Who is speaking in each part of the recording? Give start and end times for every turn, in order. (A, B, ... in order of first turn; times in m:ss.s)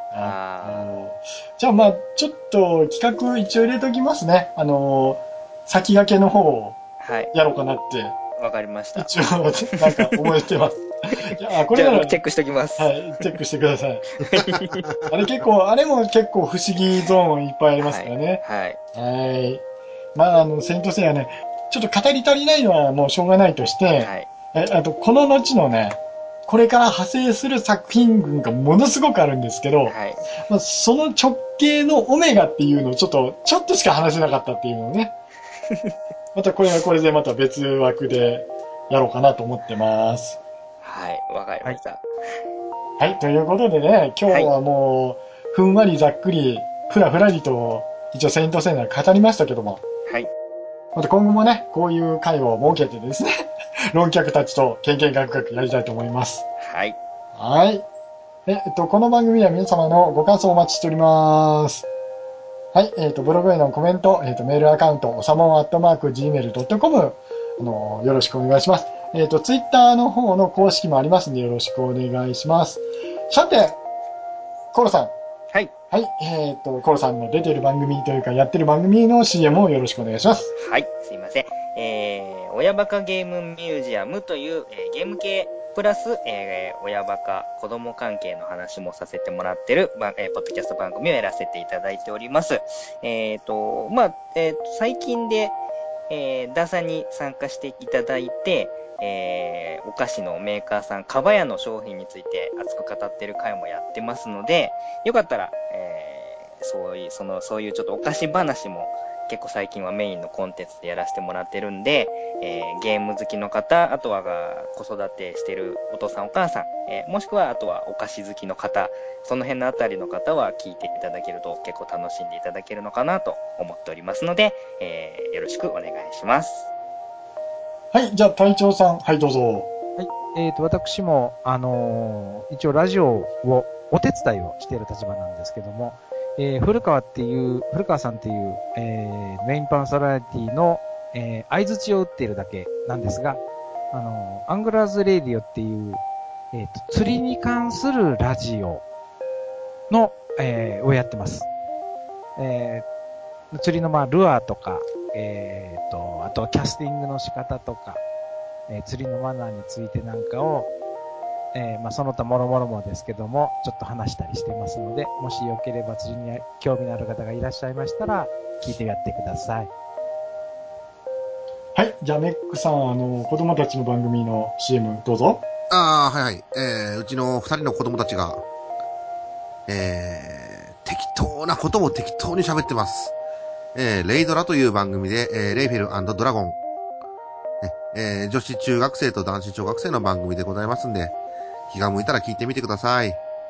0:00.1-0:06.8 A
0:00.2-0:00.9 B
0:07.0-0:07.3 B
0:07.3-0:08.2 A
0:08.4-0:10.4 B
0:09.0-0:12.2 A
0:11.1-0:13.3 B
0:12.8-0:14.0 A
0:14.2-0:14.8 B
0:14.7-0:15.1 C
0:15.1-0:18.4 A
0:17.8-0:18.8 B
0:18.9-0:19.6 A
0:20.1-0:35.1 A
0:24.0-0:24.3 B
0:29.9-0:30.2 B
0:36.3-0:40.4 A
0:40.8-0:42.0 B
0:43.0-0:49.8 A
0:50.9-0:56.4 A
0:56.6-0:57.0 B
0:57.3-0:57.8 A
0:58.4-1:01.8 A
1:02.7-1:13.8 A
1:14.7-1:15.1 A
1:15.9-1:20.5 A
1:20.6-1:35.6 B
1:36.1-2:06.7 B
2:07.9-2:09.7 A
2:10.0-2:23.4 D
2:23.9-2:26.0 D
2:26.5-2:28.8 D
2:29.9-2:31.5 D
2:32.4-2:32.8 D
2:33.5-2:38.0 D
2:38.7-2:40.7 D
2:41.5-2:49.7 D
2:51.7-2:55.4 A
2:55.7-2:58.4 C
2:59.7-3:03.1 C
3:03.7-3:06.6 C
3:07.6-3:11.1 C
3:11.7-3:13.2 C